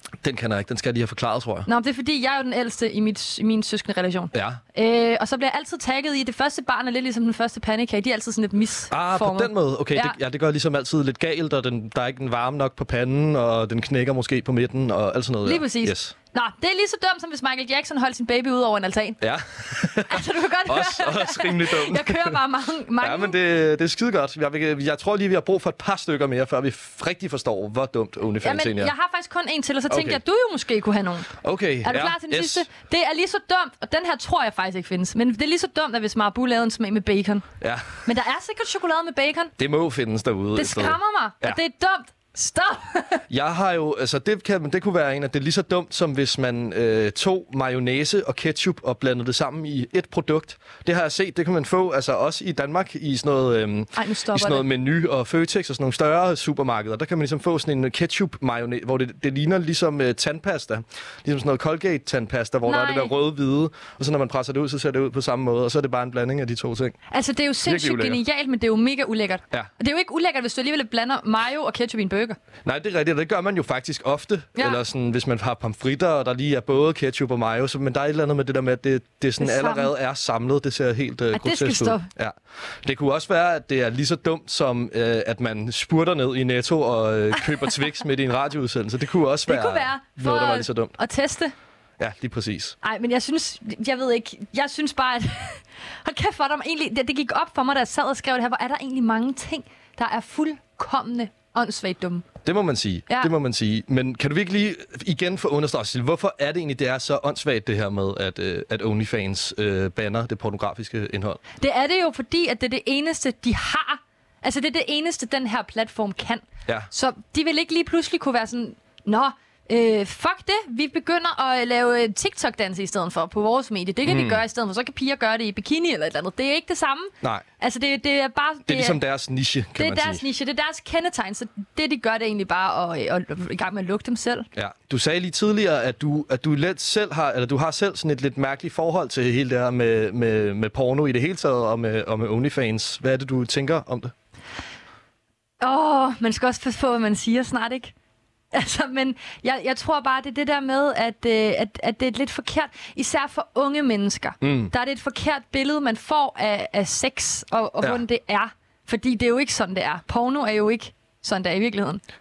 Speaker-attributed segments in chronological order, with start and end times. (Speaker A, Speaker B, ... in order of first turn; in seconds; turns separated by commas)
Speaker A: 0.2-1.7, Speaker B: 1.6-10.2, Speaker A: 4.3-4.6, Speaker A: 8.9-16.1, Speaker B: 15.4-19.2, Speaker A: 19.2-22.4, Speaker B: 20.1-23.4, Speaker A: 23.0-28.9, Speaker B: 28.4-31.3, Speaker A: 29.9-30.2, Speaker A: 31.4-32.6, Speaker B: 31.8-37.5, Speaker A: 37.6-38.0, Speaker B: 38.0-39.5, Speaker A: 39.6-41.6, Speaker B: 40.5-43.2, Speaker A: 43.3-66.9, Speaker B: 53.9-54.6, Speaker B: 62.6-63.1, Speaker B: 67.1-72.4, Speaker A: 67.6-68.2, Speaker A: 72.6-90.9, Speaker B: 79.4-79.9, Speaker B: 81.3-82.1, Speaker B: 89.5-91.5, Speaker A: 92.0-92.7, Speaker B: 92.8-102.3, Speaker A: 102.4-111.4, Speaker B: 111.6-129.0, Speaker A: 124.0-124.4, Speaker A: 128.7-130.2, Speaker B: 129.8-134.5, Speaker A: 134.6-144.1, Speaker B: 145.6-147.9, Speaker B: 148.5-162.0, Speaker A: 154.4-154.7